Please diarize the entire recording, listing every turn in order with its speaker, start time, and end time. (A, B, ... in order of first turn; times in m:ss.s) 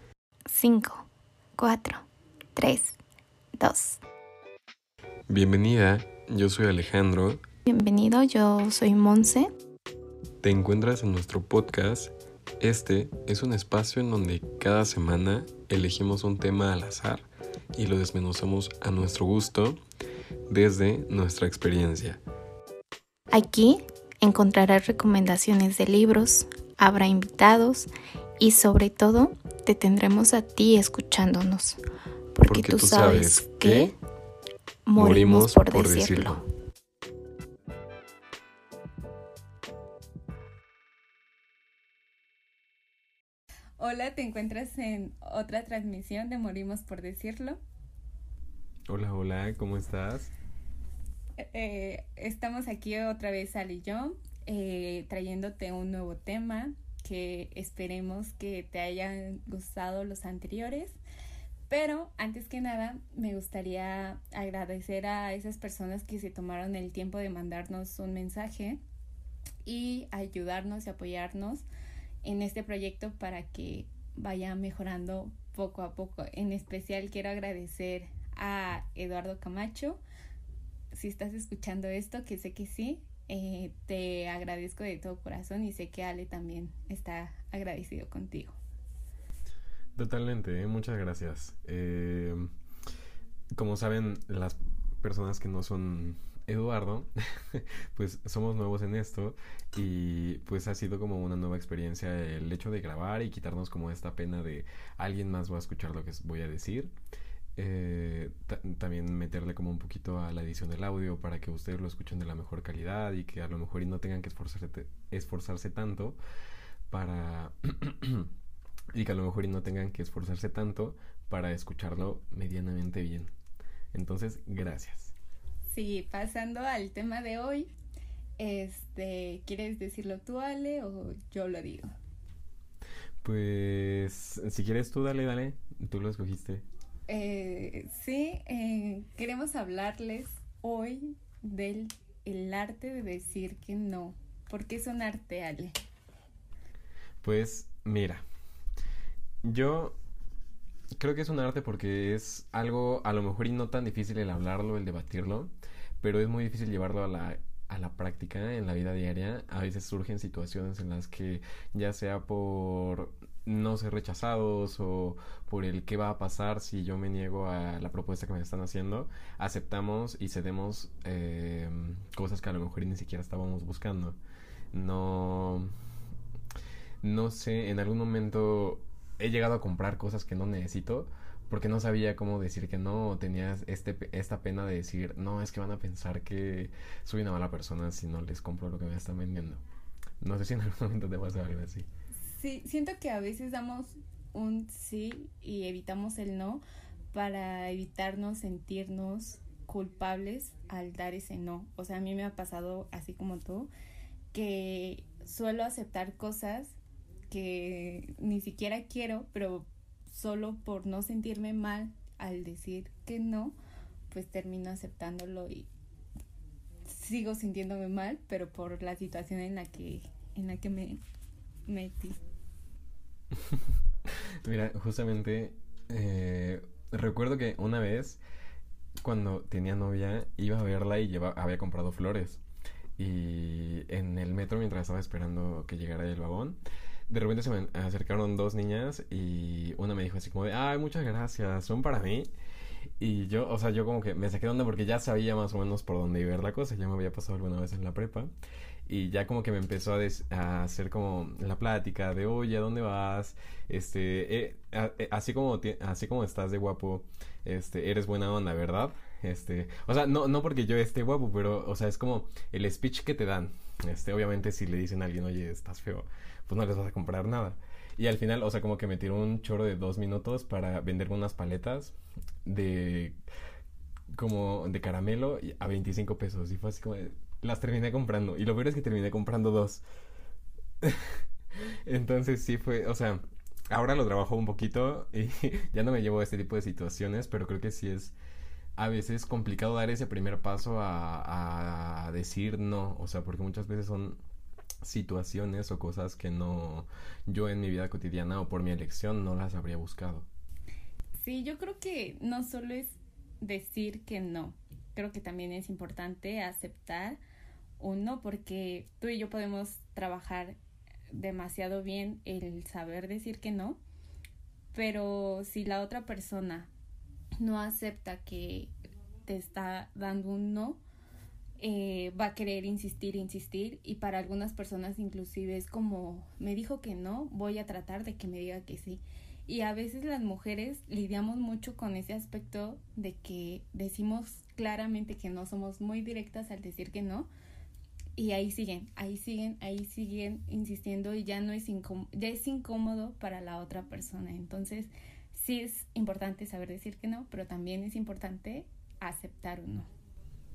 0:00.5-0:02.0 A
0:02.6-0:03.0 A
0:03.6-0:04.0 A
0:05.3-0:07.4 B
0:07.7-0:09.5 A
0:10.4-0:19.8 B
0:20.5-0:22.2 B
0:23.3-0:31.8 A
0:32.3-0:34.0 A
0:32.4-0:33.9 B
0:34.9-0:36.4 A
0:35.0-0:36.4 B
0:43.8-0:47.6 C
0:48.9-0:50.3 B
0:51.4-1:01.0 C
1:01.7-1:08.8 C
1:09.6-1:11.6 C
1:12.2-1:20.0 C
1:20.9-1:28.6 C
1:30.0-1:32.5 B
1:33.5-1:46.9 B
1:47.6-1:56.2 B
1:56.9-1:58.3 B
1:58.9-2:03.3 B
2:03.9-2:05.1 B
2:05.7-2:07.7 C
2:08.4-2:11.9 C
2:13.2-2:16.6 B
2:17.1-2:25.7 C
2:27.2-2:28.2 B
2:29.4-2:30.0 B
2:31.0-2:54.2 B
2:54.7-2:55.7 B
2:57.0-3:09.6 B
3:10.2-3:11.9 B
3:12.2-3:16.6 C
3:17.1-3:23.7 C
3:24.3-3:26.8 C
3:27.3-3:33.6 C
3:34.1-3:35.7 C
3:36.9-3:41.0 C
3:41.7-3:42.2 C
3:43.4-3:43.6 B
3:44.4-3:48.2 B
3:49.0-3:52.4 B
3:53.0-4:02.3 B
4:03.0-4:08.3 B
4:08.9-4:33.2 B
4:34.1-4:39.8 B
4:40.8-4:48.1 B
4:48.8-4:54.2 B
4:54.8-5:00.3 B
5:01.2-5:07.2 C
5:07.8-5:10.6 C
5:11.1-5:13.8 C
5:14.7-5:16.7 C
5:17.4-5:18.7 C
5:19.3-5:20.8 C
5:21.6-5:37.3 C
5:38.2-5:49.9 C